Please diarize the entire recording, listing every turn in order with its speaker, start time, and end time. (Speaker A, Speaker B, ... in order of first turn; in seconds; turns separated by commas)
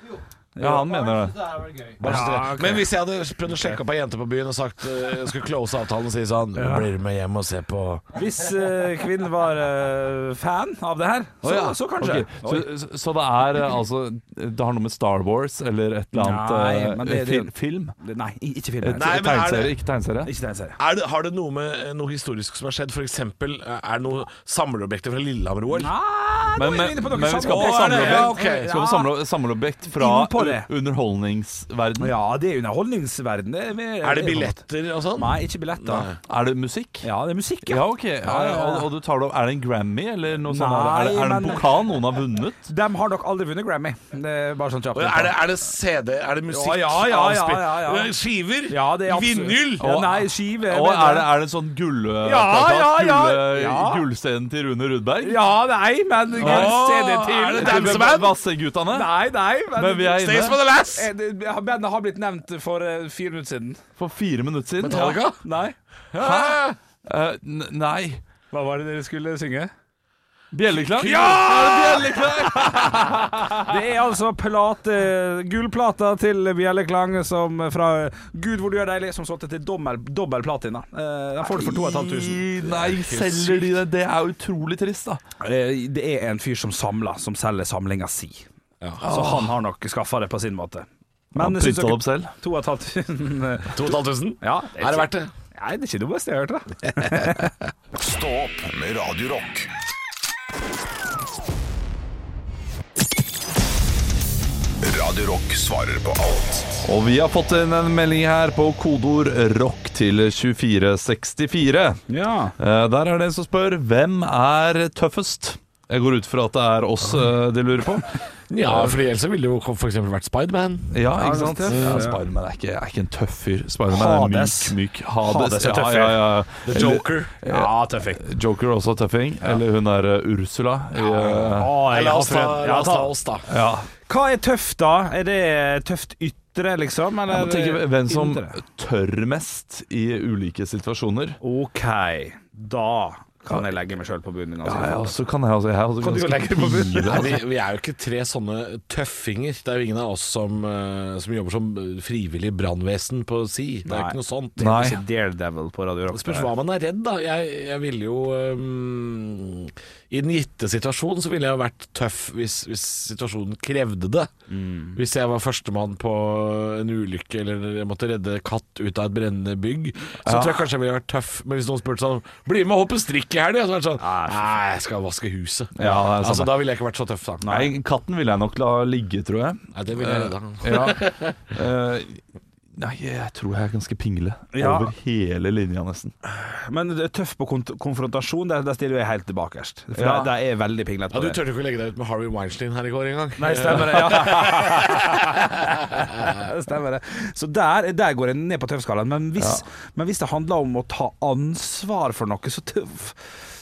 Speaker A: 0.6-1.1, Speaker B: 0.6-1.9, Speaker C: 2.0-8.1, Speaker A: 2.0-2.9, Speaker A: 6.6-6.8, Speaker A: 8.1-12.7, Speaker B: 11.5-17.9, Speaker A: 16.1-19.5, Speaker B: 18.8-20.3, Speaker C: 18.9-19.8, Speaker A: 20.2-20.8, Speaker C: 20.8-25.9, Speaker A: 25.7-29.2, Speaker B: 26.6-32.1, Speaker C: 27.4-28.7, Speaker A: 29.9-30.7, Speaker A: 32.0-36.1, Speaker C: 34.0-36.2, Speaker B: 36.3-37.1, Speaker A: 37.0-38.9, Speaker B: 37.6-42.6, Speaker A: 40.5-41.9, Speaker A: 42.6-45.4, Speaker C: 44.9-49.9, Speaker A: 46.5-48.1, Speaker A: 48.7-51.3, Speaker B: 49.8-55.4, Speaker A: 52.2-54.0, Speaker A: 55.2-58.3, Speaker C: 56.3-58.3, Speaker B: 56.4-59.1, Speaker A: 58.9-63.8, Speaker B: 59.7-60.6, Speaker C: 60.1-61.1, Speaker B: 64.0-65.2, Speaker C: 64.8-65.4, Speaker A: 65.4-66.6, Speaker B: 66.2-68.2, Speaker C: 66.2-66.7, Speaker A: 68.5-69.7, Speaker B: 70.5-73.8, Speaker C: 71.0-72.7, Speaker A: 71.0-71.9, Speaker A: 73.6-82.5, Speaker B: 81.5-85.2, Speaker C: 82.6-83.7, Speaker A: 85.4-88.5, Speaker C: 88.8-89.0, Speaker A: 89.0-97.5, Speaker B: 89.0-89.5, Speaker B: 91.3-92.3, Speaker C: 93.7-95.3, Speaker D: 97.9-99.7, Speaker D: 104.8-106.8, Speaker B: 106.8-112.0, Speaker A: 112.1-112.5, Speaker B: 112.6-118.9, Speaker C: 118.5-121.0, Speaker B: 120.9-131.8, Speaker A: 121.2-122.2, Speaker C: 121.7-122.1, Speaker A: 123.9-126.3, Speaker C: 126.6-127.3, Speaker A: 127.4-128.2, Speaker C: 131.0-133.5, Speaker A: 131.1-133.1, Speaker B: 133.5-133.9, Speaker A: 134.1-138.6, Speaker B: 137.3-141.4, Speaker A: 141.4-145.2, Speaker B: 144.6-147.4, Speaker A: 146.0-147.4, Speaker C: 147.1-154.6, Speaker A: 153.8-156.5, Speaker B: 154.6-155.0, Speaker C: 156.1-164.3, Speaker A: 164.5-165.0, Speaker C: 164.9-177.5, Speaker B: 170.2-170.7, Speaker A: 174.0-174.6, Speaker B: 175.8-176.6, Speaker A: 175.8-176.1, Speaker A: 177.4-177.7, Speaker B: 177.4-182.2, Speaker C: 179.7-181.5, Speaker B: 182.7-186.1, Speaker A: 184.5-184.9, Speaker A: 186.3-191.4, Speaker B: 189.9-190.3, Speaker C: 191.1-196.3, Speaker A: 193.4-203.2